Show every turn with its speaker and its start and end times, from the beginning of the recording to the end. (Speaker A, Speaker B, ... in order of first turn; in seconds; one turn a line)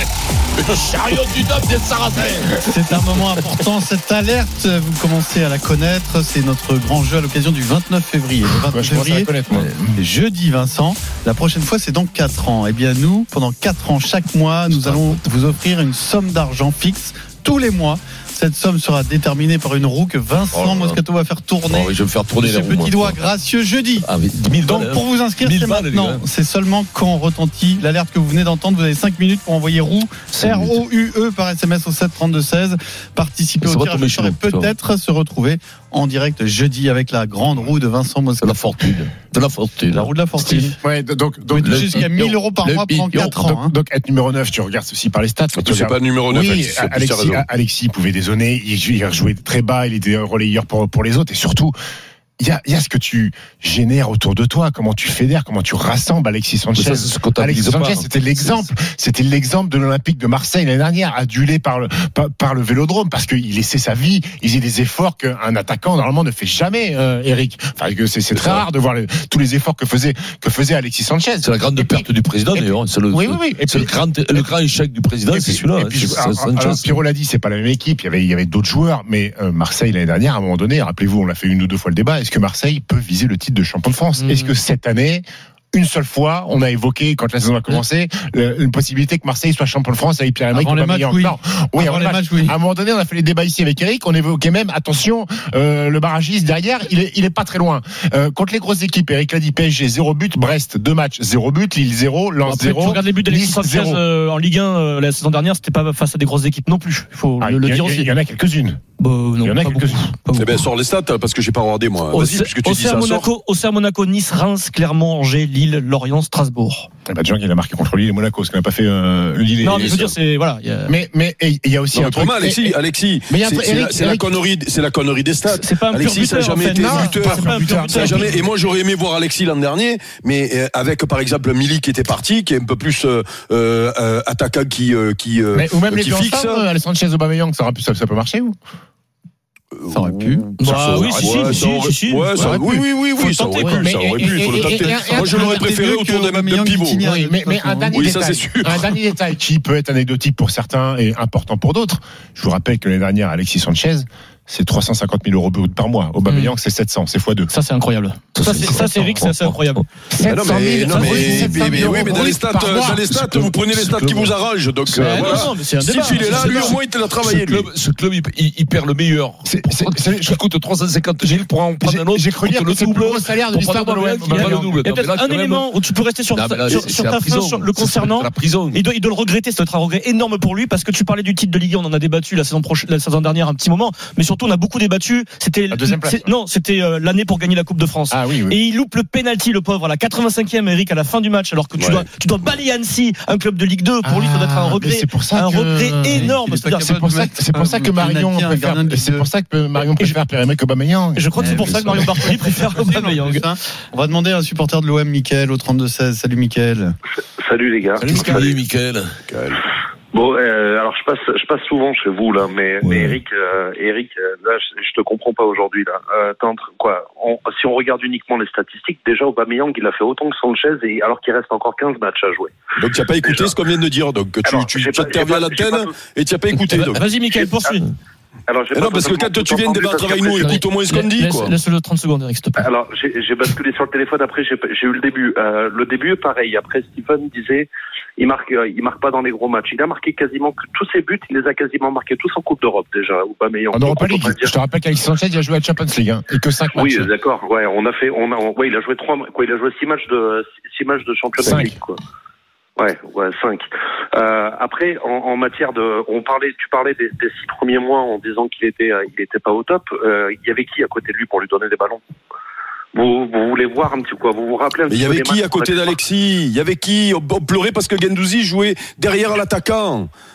Speaker A: 0.6-2.6
Speaker B: 2.7-9.3
Speaker C: 8.7-10.0
Speaker B: 10.0-24.1
Speaker A: 14.7-15.2
Speaker A: 20.5-21.0
Speaker A: 21.7-23.2
Speaker A: 24.1-26.2
Speaker B: 24.6-38.8
Speaker A: 30.3-30.8
Speaker A: 33.6-34.7
Speaker A: 38.4-40.7
Speaker B: 39.9-40.8
Speaker C: 40.8-42.1
Speaker B: 41.5-43.7
Speaker A: 41.6-43.5
Speaker C: 43.4-51.7
Speaker D: 45.5-47.5
Speaker C: 52.4-74.5
Speaker A: 56.8-58.7
Speaker A: 68.4-68.6
Speaker A: 71.4-76.9
Speaker C: 75.3-104.0
Speaker E: 84.2-84.5
Speaker B: 90.5-92.5
Speaker E: 102.5-108.1
Speaker C: 107.4-108.8
Speaker E: 109.0-110.7
Speaker C: 109.4-110.1
Speaker D: 110.4-113.3
Speaker E: 112.1-116.9
Speaker C: 117.1-120.1
Speaker E: 119.6-120.9
Speaker D: 119.7-120.1
Speaker C: 120.9-122.8
Speaker D: 121.9-136.6
Speaker C: 123.3-124.3
Speaker E: 125.5-128.4
Speaker C: 126.7-128.4
Speaker C: 135.5-138.6
Speaker D: 139.8-147.0
Speaker B: 139.9-140.5
Speaker E: 140.6-144.0
Speaker C: 140.7-141.6
Speaker C: 142.4-145.7
Speaker B: 144.8-148.0
Speaker C: 147.0-157.5
Speaker D: 147.9-148.9
Speaker E: 156.3-156.5
Speaker E: 157.5-159.8
Speaker A: 158.3-159.7
Speaker C: 160.1-164.1
Speaker D: 160.3-167.7
Speaker A: 161.7-162.0
Speaker A: 163.7-164.3
Speaker E: 164.9-166.8
Speaker A: 166.2-175.7
Speaker C: 169.4-170.4
Speaker C: 171.2-174.8
Speaker E: 174.3-197.0
Speaker A: 176.3-178.8
Speaker C: 185.7-186.3
Speaker C: 188.1-188.6
Speaker D: 191.8-192.1
Speaker C: 194.0-202.3
Speaker B: 196.1-199.3
Speaker E: 201.2-203.5
Speaker B: 201.4-206.9
Speaker F: 207.4-208.4
Speaker C: 208.0-208.4
Speaker A: 208.0-209.1
Speaker D: 209.3-209.6
Speaker F: 210.1-222.6
Speaker A: 212.8-213.2
Speaker D: 222.8-227.1
Speaker F: 224.4-226.0
Speaker E: 226.7-227.9
Speaker F: 227.3-227.8
Speaker F: 228.5-230.6
Speaker D: 228.7-231.5
Speaker E: 230.4-232.7
Speaker F: 232.6-244.5
Speaker C: 243.7-247.1
Speaker F: 246.7-252.0
Speaker C: 251.4-251.8
Speaker F: 252.8-262.0
Speaker F: 262.9-265.9
Speaker D: 264.9-270.1